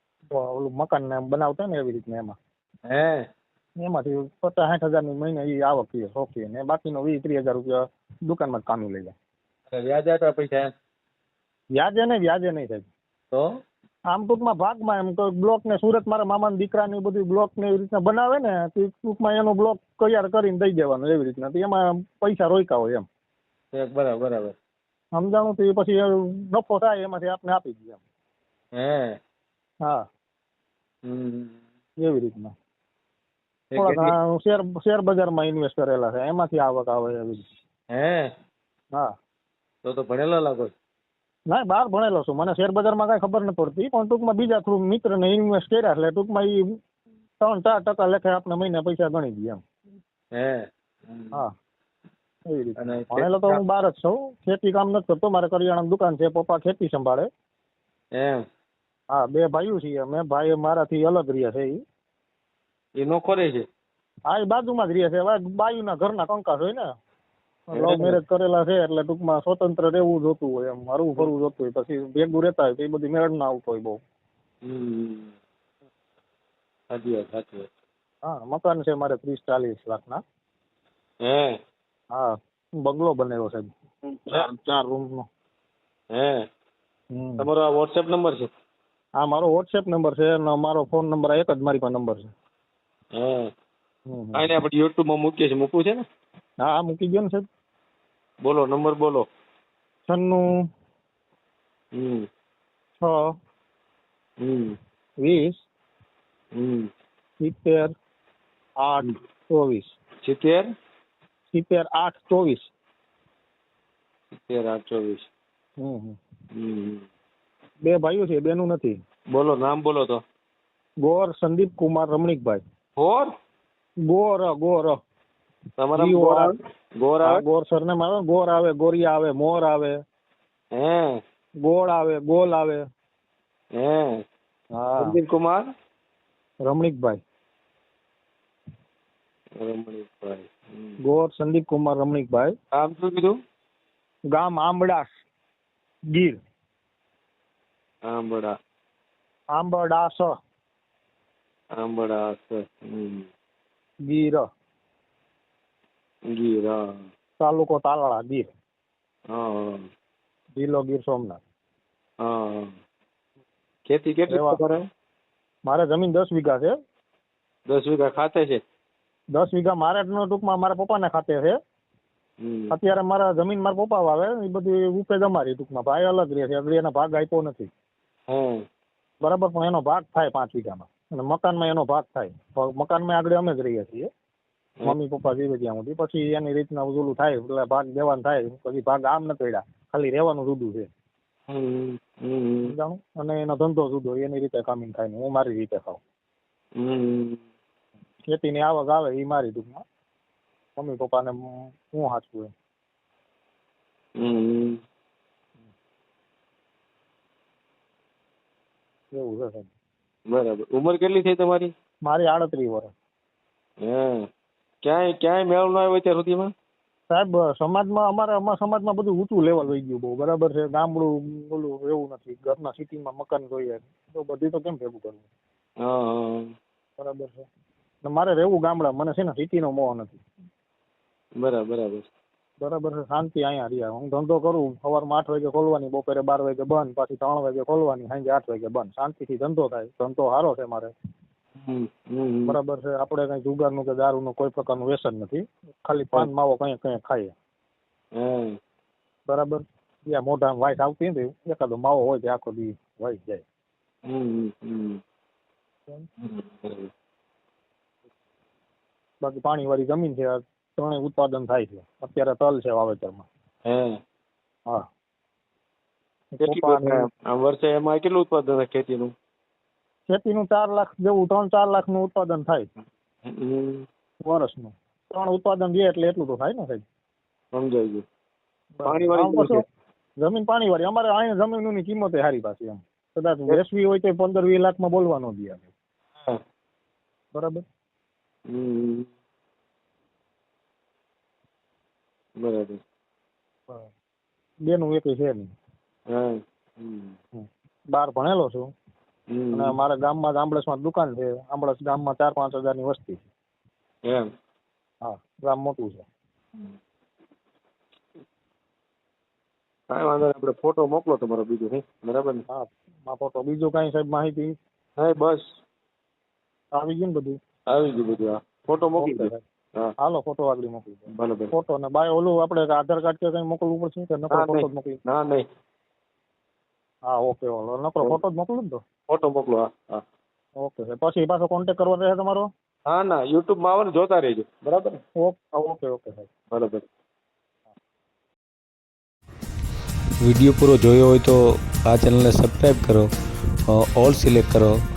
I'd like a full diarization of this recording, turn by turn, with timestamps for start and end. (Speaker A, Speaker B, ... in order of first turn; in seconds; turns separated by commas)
Speaker A: 0.3-2.4, Speaker B: 2.9-3.3, Speaker A: 3.8-9.1, Speaker B: 9.7-10.7, Speaker A: 11.8-12.9, Speaker A: 14.1-23.1, Speaker B: 23.7-24.6, Speaker A: 25.1-28.0, Speaker B: 28.8-29.2, Speaker B: 31.1-31.6, Speaker A: 32.0-32.5, Speaker B: 33.7-34.1, Speaker A: 33.8-37.5, Speaker B: 37.9-38.3, Speaker B: 39.9-40.7, Speaker A: 41.5-46.7, Speaker A: 47.4-49.6, Speaker B: 50.4-51.4, Speaker A: 52.5-57.3, Speaker B: 52.8-53.6, Speaker B: 58.1-58.4, Speaker A: 59.1-61.8, Speaker B: 63.0-63.7, Speaker A: 64.3-66.9, Speaker A: 67.7-74.0, Speaker B: 67.7-68.2, Speaker B: 74.7-75.3, Speaker B: 76.9-77.7, Speaker A: 78.2-80.2, Speaker B: 81.3-81.5, Speaker A: 82.2-83.7, Speaker A: 84.3-85.3, Speaker B: 86.2-86.4, Speaker A: 87.1-87.5, Speaker B: 87.4-88.5, Speaker A: 89.2-92.3, Speaker B: 93.2-93.5, Speaker A: 94.1-94.6, Speaker B: 94.3-96.0, Speaker A: 96.6-97.5, Speaker B: 98.4-99.3, Speaker A: 100.1-100.4, Speaker B: 102.0-102.3, Speaker A: 103.0-103.3, Speaker B: 104.4-104.8, Speaker A: 105.2-105.6, Speaker B: 106.6-106.9, Speaker A: 107.4-107.9, Speaker A: 108.8-109.9, Speaker B: 110.2-110.7, Speaker A: 111.5-112.7, Speaker B: 114.3-115.3, Speaker A: 115.8-116.2, Speaker B: 116.5-117.1, Speaker A: 117.8-119.0, Speaker B: 119.3-120.2, Speaker A: 121.0-122.6, Speaker B: 123.0-123.3, Speaker A: 124.0-125.0, Speaker B: 125.8-127.4, Speaker A: 126.0-126.5, Speaker A: 127.2-129.9, Speaker B: 130.8-131.2, Speaker A: 131.6-132.8, Speaker B: 133.8-134.2, Speaker A: 134.7-135.2, Speaker B: 135.0-135.7, Speaker A: 136.6-137.2, Speaker B: 139.6-141.0, Speaker A: 141.0-142.5, Speaker B: 142.8-143.4, Speaker A: 144.3-145.2, Speaker A: 146.1-146.4, Speaker B: 148.1-148.6, Speaker A: 149.6-150.3, Speaker B: 151.8-153.3, Speaker A: 154.1-154.5, Speaker B: 156.3-157.0, Speaker A: 157.4-158.5, Speaker B: 159.3-159.9, Speaker A: 160.6-161.4, Speaker B: 162.2-162.7, Speaker B: 163.9-164.8, Speaker A: 164.3-164.6, Speaker A: 165.7-166.7, Speaker B: 167.7-168.6, Speaker A: 169.3-171.6, Speaker B: 172.4-172.7, Speaker A: 172.7-177.7, Speaker B: 178.3-178.6, Speaker A: 179.2-184.1, Speaker A: 184.8-190.9, Speaker B: 191.5-192.7, Speaker A: 192.7-196.0, Speaker B: 196.8-197.4, Speaker A: 198.3-199.8, Speaker A: 200.8-202.5, Speaker B: 204.2-204.8, Speaker A: 209.1-209.7, Speaker B: 210.3-211.7, Speaker A: 212.1-212.9, Speaker B: 213.8-214.3, Speaker B: 214.8-216.5, Speaker A: 217.1-225.2, Speaker B: 225.8-226.5, Speaker A: 227.0-227.5, Speaker A: 228.0-230.2, Speaker B: 231.4-232.1, Speaker A: 232.6-240.9, Speaker B: 241.6-242.6, Speaker A: 242.5-247.3, Speaker B: 248.2-248.6, Speaker A: 249.3-253.4, Speaker B: 254.1-255.0, Speaker B: 256.2-256.9, Speaker A: 259.2-263.3, Speaker B: 263.7-264.0, Speaker A: 266.3-267.1, Speaker B: 266.4-269.1, Speaker A: 270.1-272.7, Speaker B: 273.3-273.9, Speaker A: 274.2-276.8, Speaker B: 277.5-278.0, Speaker A: 278.8-279.6, Speaker B: 278.9-279.6, Speaker A: 280.2-285.7, Speaker A: 287.3-287.6, Speaker B: 288.5-289.1, Speaker B: 292.4-292.8, Speaker A: 294.7-295.5, Speaker B: 296.1-297.1, Speaker A: 297.4-298.7, Speaker B: 299.3-299.8, Speaker A: 299.5-303.3, Speaker A: 305.0-306.1, Speaker B: 309.9-312.4, Speaker A: 312.5-314.5, Speaker B: 315.0-315.6, Speaker A: 316.8-317.4, Speaker B: 317.7-319.9, Speaker A: 319.0-319.4, Speaker A: 320.0-325.0, Speaker B: 321.1-321.5, Speaker B: 324.3-325.4, Speaker A: 327.1-328.8, Speaker B: 329.1-330.0, Speaker A: 330.6-332.5, Speaker B: 332.9-335.0, Speaker A: 335.2-336.3, Speaker B: 336.5-336.9, Speaker C: 340.2-343.1, Speaker C: 343.7-344.8